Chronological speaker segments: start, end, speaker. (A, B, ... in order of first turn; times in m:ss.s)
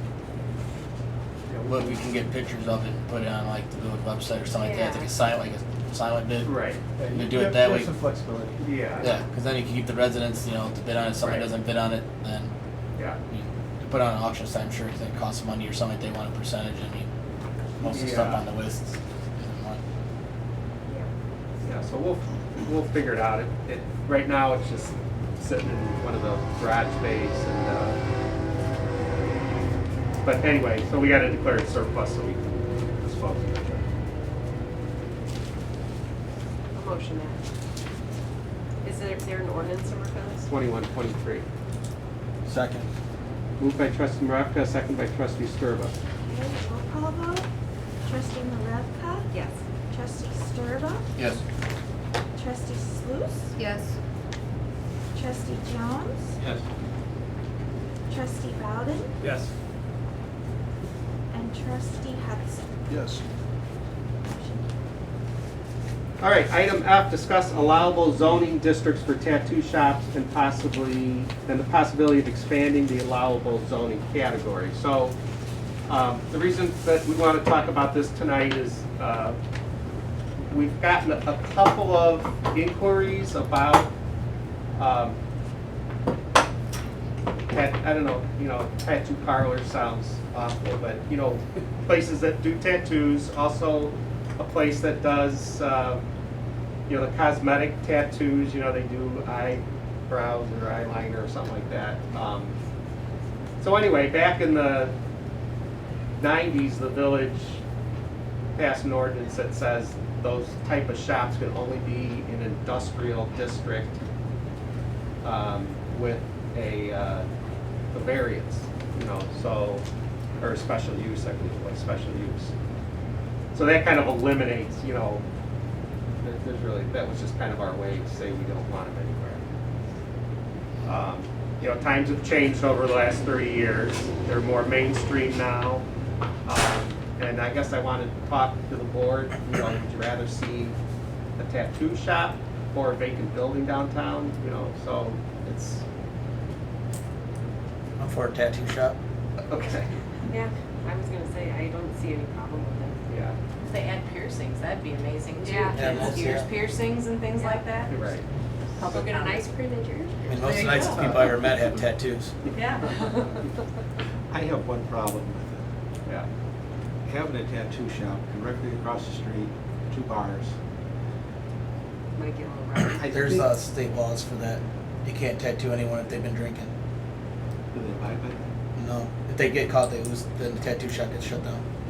0:01.5-0:01.9 A
0:01.6-0:06.5 B
0:04.6-0:05.1 C
0:06.4-0:06.8 A
0:07.0-0:08.6 D
0:07.1-0:07.9 B
0:08.6-0:09.1 A
0:09.0-0:12.5 B
0:11.2-0:11.5 A
0:13.3-0:17.1 B
0:17.8-0:19.8 B
0:17.8-0:18.4 A
0:21.6-0:28.0 A
0:29.0-0:29.6 A
0:30.2-0:33.9 A
0:36.7-0:37.4 C
0:38.8-0:40.5 C
0:40.4-0:41.4 A
0:42.4-0:42.9 B
0:43.6-0:45.9 A
0:46.3-0:47.5 E
0:48.0-0:49.3 E
0:49.3-0:49.6 C
0:49.9-0:51.0 E
0:52.4-0:53.5 E
0:55.1-0:56.4 E
0:56.4-0:56.6 D
0:58.1-0:59.2 E
1:01.3-1:02.6 E
1:04.3-1:04.6 E
1:06.2-1:15.2 A
1:15.9-1:19.4 A
1:20.5-1:23.9 A
1:24.8-1:25.2 A
1:27.5-1:36.0 A
1:36.9-1:42.5 A
1:43.6-1:44.9 A
1:46.2-1:47.6 A
1:48.6-1:54.0 A
1:55.2-1:57.3 A
1:57.9-1:59.8 A
2:00.4-2:02.5 A
2:03.5-2:05.2 A
2:06.2-2:09.4 A
2:10.8-2:15.8 A
2:16.4-2:20.7 A
2:21.4-2:25.8 A
2:28.0-2:29.0 B
2:29.4-2:29.9 A
2:30.3-2:33.0 C
2:33.1-2:33.4 A
2:33.6-2:38.0 F
2:35.4-2:36.3 C
2:35.7-2:36.5 B
2:37.3-2:37.6 C
2:37.9-2:38.2 A
2:38.8-2:39.5 F
2:38.8-2:41.0 C
2:40.2-2:42.3 B
2:40.4-2:41.2 F
2:41.0-2:41.5 A
2:42.5-2:43.0 F
2:42.8-2:43.4 C
2:44.3-2:45.6 D
2:47.0-2:50.5 D
2:52.1-2:53.4 C
2:53.0-2:56.7 B
2:53.2-2:53.4 D
2:57.7-2:58.4 D
2:58.8-3:01.6 B